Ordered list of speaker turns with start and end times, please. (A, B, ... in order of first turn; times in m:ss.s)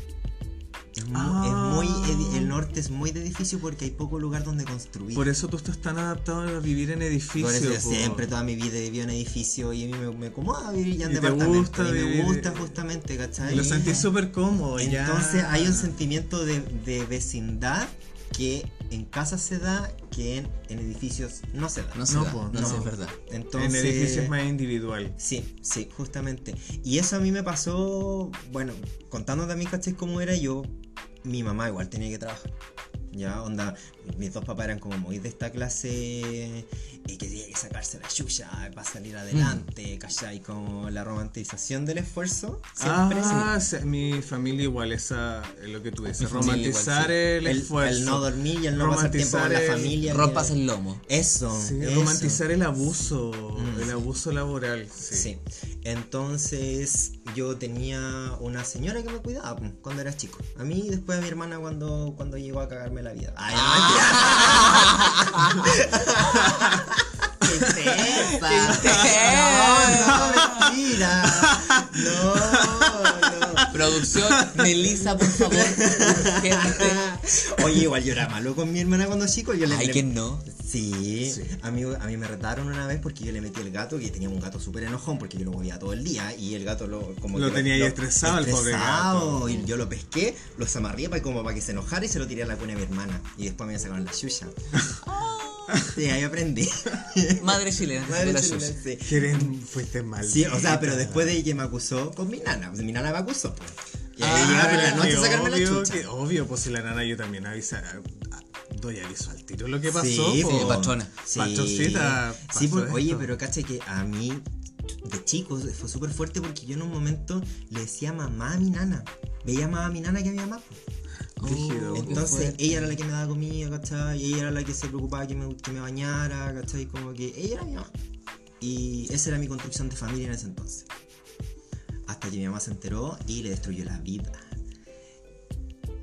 0:01.0-0:05.3 A
0:01.1-0:02.6 B
0:05.2-0:08.3 B
0:07.4-0:14.1 A
0:11.0-0:12.8 B
0:13.4-0:14.1 C
0:13.4-0:15.9 B
0:14.8-0:24.4 A
0:22.0-0:23.2 C
0:22.1-0:22.9 B
0:23.6-0:25.2 B
0:25.2-0:32.6 A
0:33.1-0:43.5 A
0:39.3-0:39.6 C
0:42.8-0:50.1 B
0:43.2-0:43.5 C
0:46.2-0:47.2 C
0:47.4-0:52.4 A
0:50.0-0:51.0 C
0:51.5-0:55.3 B
0:53.6-0:54.0 A
0:55.1-1:13.8 A
1:03.5-1:06.7 C
1:07.7-1:08.1 B
1:08.2-1:10.7 C
1:08.7-1:09.2 B
1:09.8-1:14.6 B
1:13.7-1:17.0 C
1:15.3-1:34.6 A
1:19.7-1:20.4 C
1:21.3-1:21.5 B
1:27.3-1:29.7 B
1:35.0-1:35.8 C
1:35.7-1:39.5 A
1:37.4-1:38.8 C
1:39.0-1:41.4 B
1:40.2-1:46.1 A
1:44.2-1:53.3 B
1:44.2-1:45.2 C
1:49.9-2:00.8 A
1:50.4-1:51.1 C
2:01.4-2:03.0 C
2:01.4-2:02.4 B
2:01.9-2:07.9 A
2:08.6-2:10.9 A
2:12.1-2:14.4 A